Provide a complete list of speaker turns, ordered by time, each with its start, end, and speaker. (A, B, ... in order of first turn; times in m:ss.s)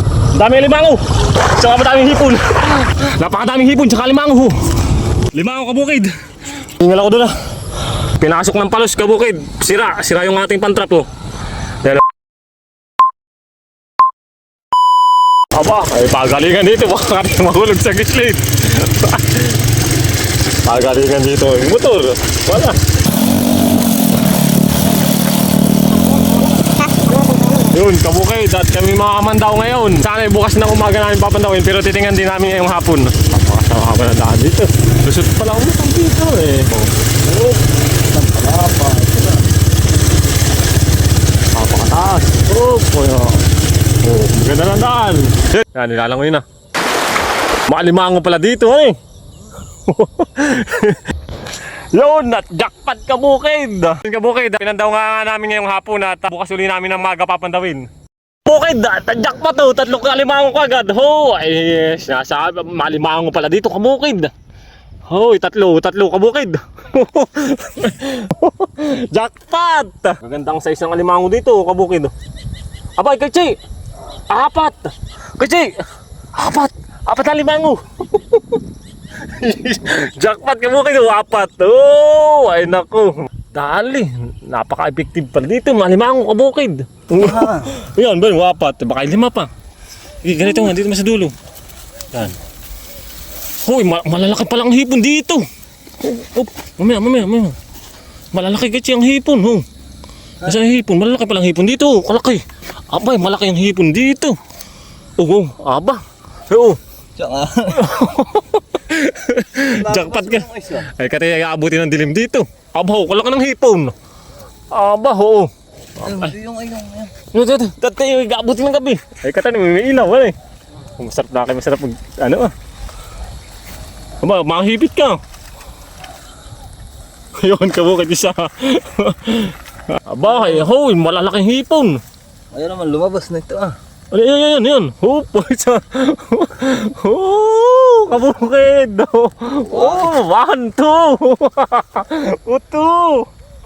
0:00.3-0:04.7 A
0:05.3-0:11.1 A
0:15.5-0:19.6 A
0:20.6-0:22.8 A
0:27.4-0:37.1 A
0:38.1-0:39.3 B
0:41.5-0:43.4 A
0:44.0-0:46.4 A
0:47.7-0:49.0 A
0:49.8-0:51.0 A
0:51.9-0:57.9 A
0:58.4-1:04.3 A
1:05.1-1:12.1 A
1:13.0-1:13.6 A
1:14.3-1:15.7 A
1:16.4-1:18.6 A
1:19.2-1:29.5 A
1:27.2-1:27.7 B
1:30.2-1:31.3 A
1:33.6-1:35.5 A
1:36.0-1:37.6 A
1:38.3-1:39.6 A
1:40.4-1:44.4 A
1:45.2-1:46.8 A
1:47.2-1:48.0 B
1:47.7-1:53.9 A
1:49.6-1:50.9 B
1:54.7-1:55.5 A
1:56.0-1:57.1 B
1:56.0-1:56.3 A
1:57.3-2:00.4 A
2:01.0-2:02.5 A
2:04.2-2:05.2 A
2:07.4-2:12.0 A
2:10.3-2:10.7 B
2:12.5-2:13.8 B
2:14.1-2:23.3 A
2:19.7-2:20.2 B